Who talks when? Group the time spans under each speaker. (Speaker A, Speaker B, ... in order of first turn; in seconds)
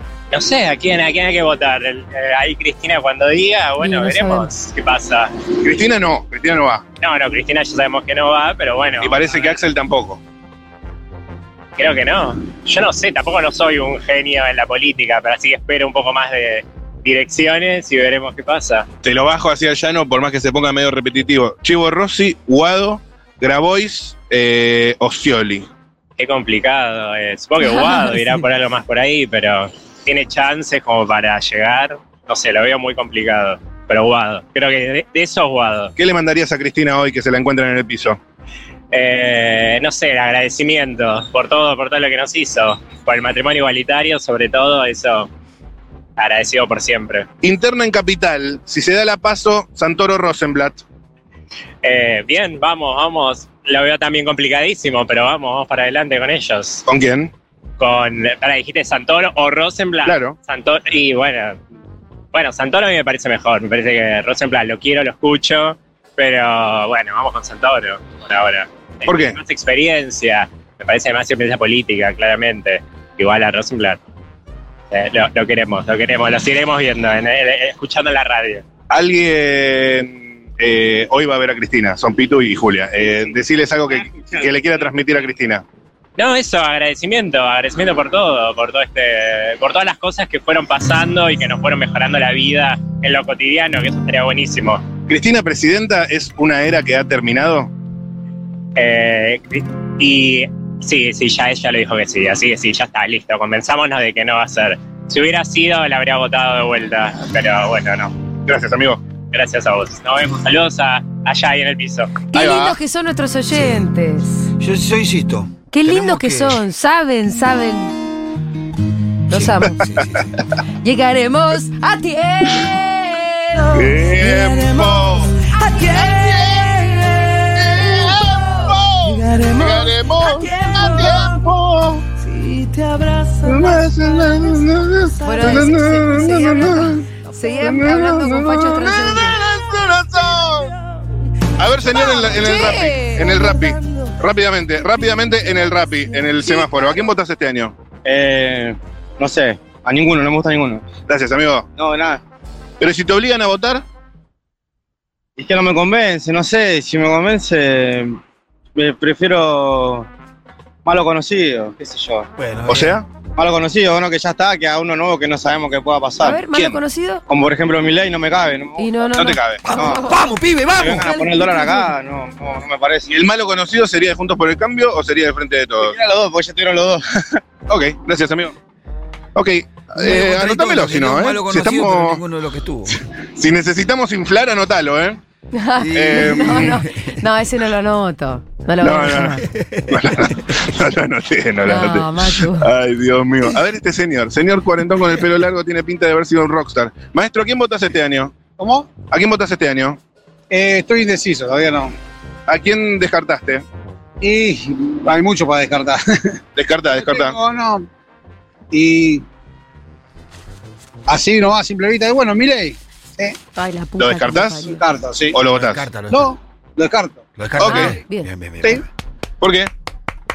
Speaker A: 0.3-5.4, 7.0-9.6, 11.8-18.9, 26.2-35.9, 38.9-45.3, 46.2-47.3, 51.8-56.8, 57.8-61.6, 62.3-74.0, 74.9-78.6, 86.2-94.9, 98.8-108.1, 109.3-112.2
Speaker B: 3.8-4.5, 112.3-114.5, 115.7-117.9, 119.3-119.8, 120.8-123.7, 135.2-139.4, 141.9-143.3, 166.2-167.2, 168.8-170.3, 170.8-171.9, 185.6-189.4, 191.7-192.7, 213.6-214.8, 217.6-218.3
Speaker C: 5.6-6.8, 9.0-10.2, 19.0-25.7, 36.0-38.2, 47.4-50.8, 56.9-57.3, 60.0-60.4, 69.1-69.4, 78.9-85.6, 95.1-97.7, 108.5-109.0, 112.3-112.8, 123.7-125.4, 125.9-132.1, 133.4-137.1, 137.6-140.7, 141.6-147.7, 151.1-151.7, 152.8-153.8, 162.7-163.1, 166.5-166.8, 169.1-169.7, 173.1-176.0, 177.7-178.6, 179.3-182.2, 182.9-185.2, 185.9-186.8, 188.8-198.4, 199.0-200.0, 202.5-203.7, 206.6-207.4, 214.0-214.8, 215.3-215.9, 217.6-218.0, 219.4-219.7
Speaker D: 113.5-113.9, 114.6-116.6, 119.3-120.2, 162.4-163.0, 169.8-171.1, 180.0-183.0, 185.8-187.1, 189.6-190.3, 215.5-216.3, 217.4-218.8
Speaker E: 148.1-150.8, 151.8-152.2, 155.4-158.2, 158.8-160.1, 160.8-162.3, 163.4-166.4, 167.3-169.1, 169.7-170.1, 170.8-173.1, 175.8-177.0
Speaker F: 198.6-198.9, 200.5-201.9, 204.2-206.4, 207.0-207.9, 208.7-209.2, 211.1-212.8, 214.8-215.4, 216.1-217.3